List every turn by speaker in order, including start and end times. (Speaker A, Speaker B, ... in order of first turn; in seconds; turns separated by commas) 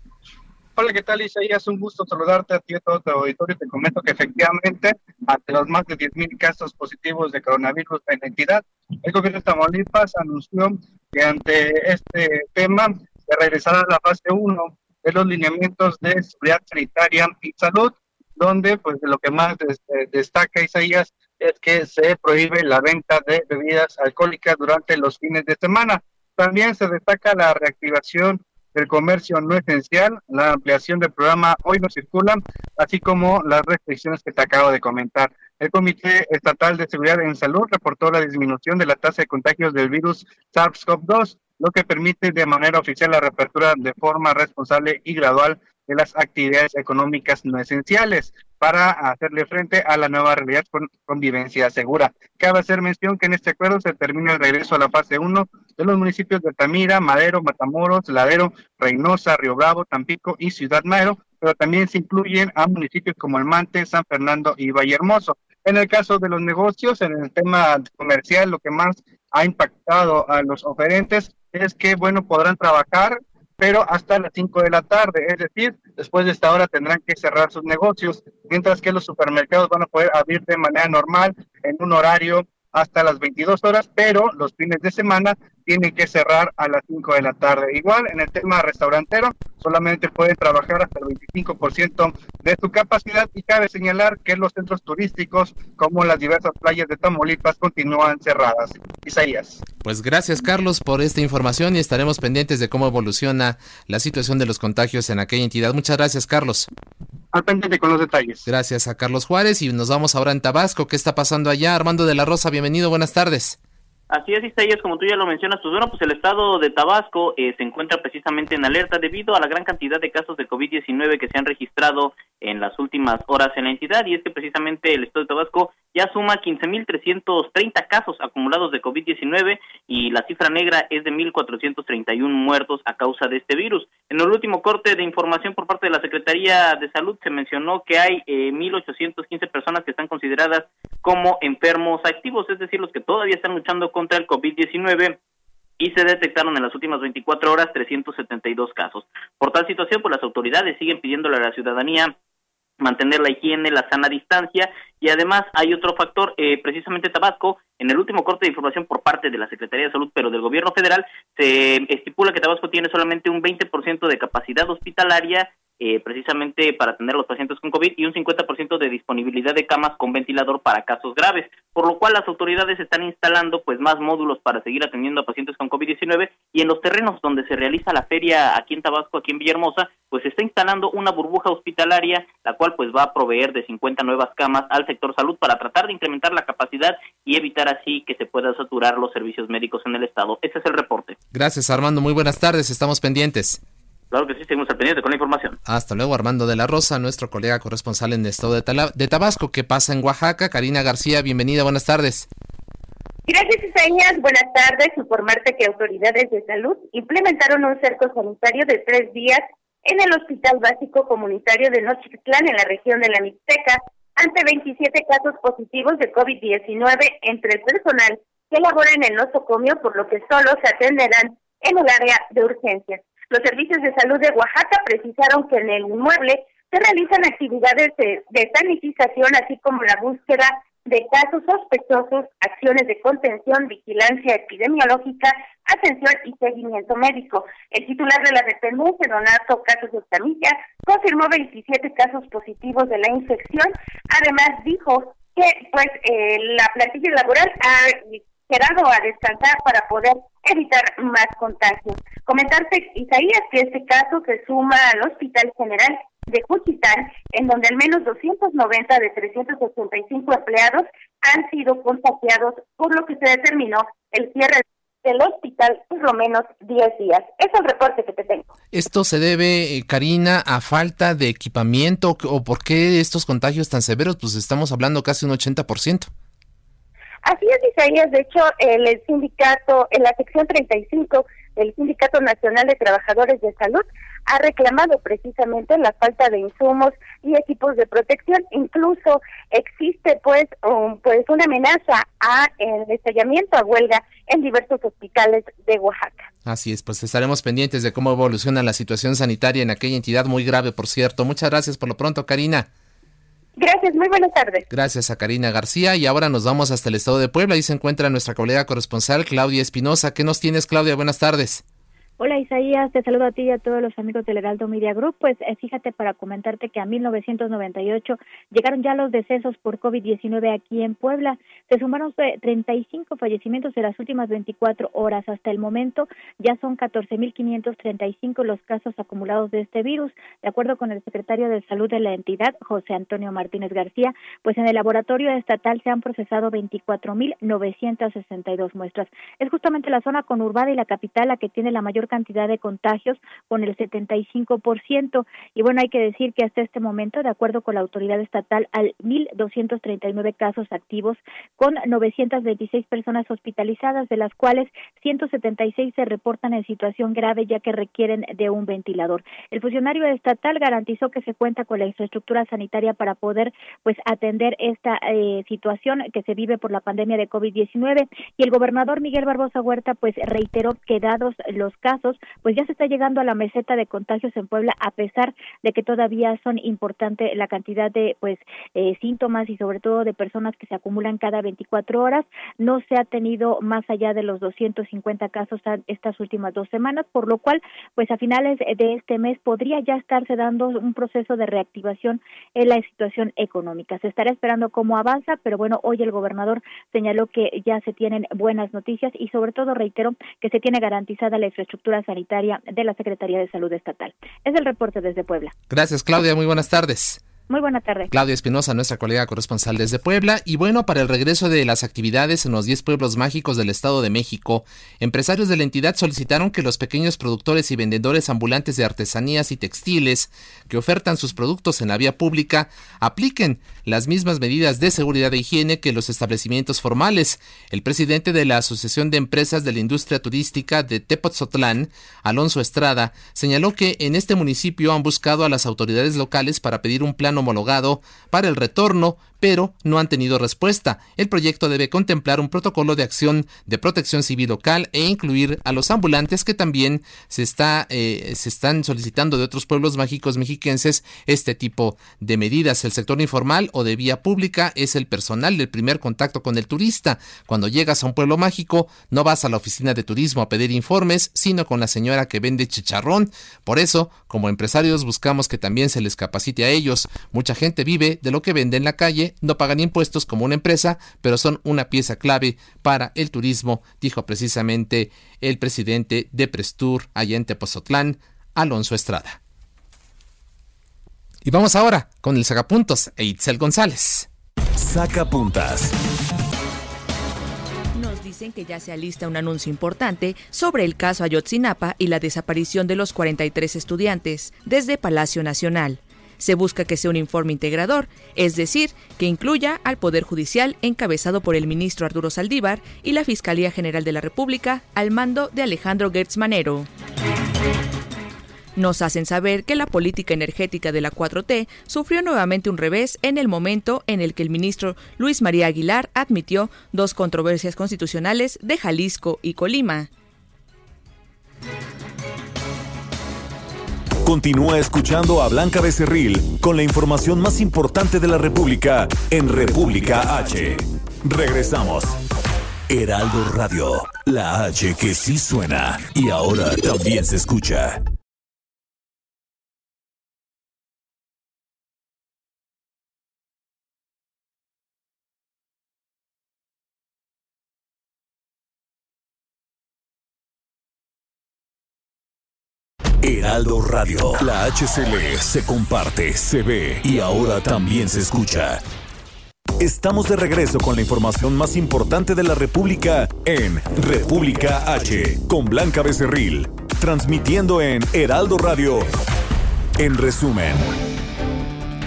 Speaker A: 0.8-99.6, Speaker B: 99.8-106.7, Speaker A: 107.3-108.4, Speaker B: 108.5-113.6, Speaker C: 114.1-145.2, Speaker C: 145.8-152.1, Speaker C: 152.8-191.2, Speaker B: 191.3-193.6, Speaker C: 194.1-195.6, Speaker B: 195.7-202.3, Speaker D: 203.3-268.5, Speaker B: 268.7-276.1, Speaker D: 277.2-296.3, Speaker B: 296.4-302.7, Speaker D: 303.6-304.6, Speaker B: 304.7-311.6, Speaker E: 312.2-405.5, Speaker B: 405.7-407.2, Speaker E: 407.5-408.1, Speaker B: 408.1-479.4, Speaker B: 481.4-484.3, Speaker F: 484.8-485.9, Speaker G: 487.9-506.9, Speaker G: 508.8-520.1, Speaker F: 524.2-532.2, Speaker F: 532.9-538.0, Speaker F: 553.2-558.8, Speaker F: 559.8-569.1, Speaker F: 570.0-570.9